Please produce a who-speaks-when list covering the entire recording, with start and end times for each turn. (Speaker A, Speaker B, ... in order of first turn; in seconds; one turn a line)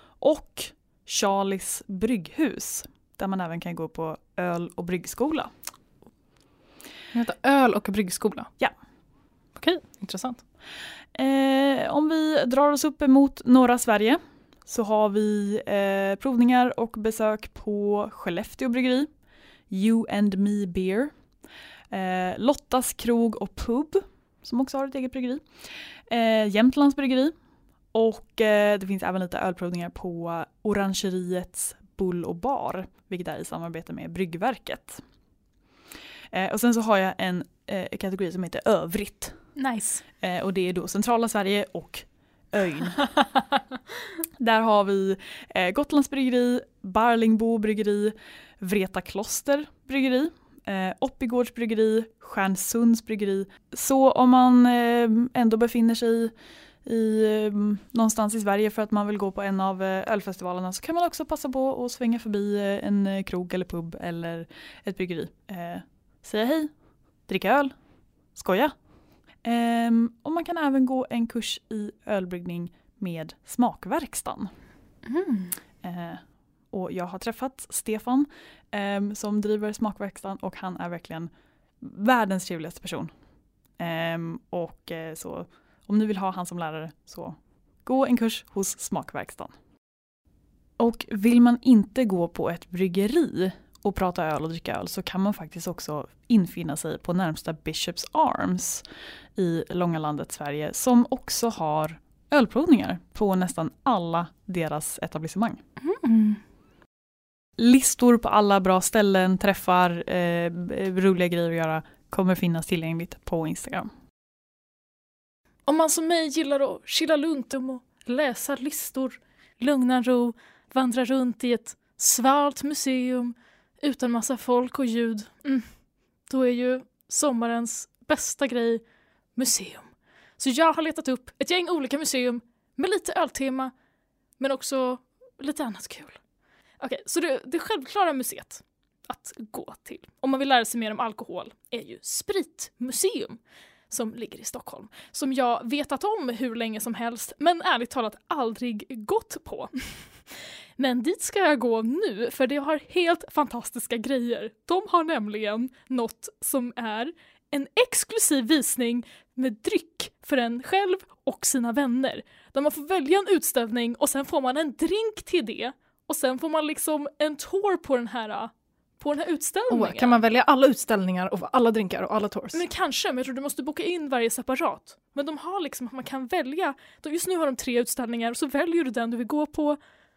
Speaker A: 0.2-5.5
Speaker B: 7.1-8.5
Speaker B: 9.6-10.4
Speaker A: 11.1-19.1
Speaker A: 19.7-21.1
Speaker A: 21.9-27.3
Speaker A: 27.9-35.0
Speaker A: 36.3-39.4
Speaker C: 39.6-40.0
Speaker A: 40.2-43.1
Speaker A: 44.4-66.7
Speaker A: 67.3-67.7
Speaker A: 68.3-68.7
Speaker A: 69.4-74.5
Speaker C: 75.0-75.5
Speaker A: 75.8-83.1
Speaker A: 83.8-89.6
Speaker A: 90.8-98.8
Speaker A: 99.3-105.6
Speaker C: 105.8-106.4
Speaker A: 107.6-113.9
Speaker C: 115.7-125.7
Speaker C: 126.3-128.8
Speaker C: 129.3-133.7
Speaker C: 134.4-136.2
Speaker C: 136.8-143.4
Speaker C: 143.9-170.2
Speaker B: 169.7-172.6
Speaker C: 172.5-179.8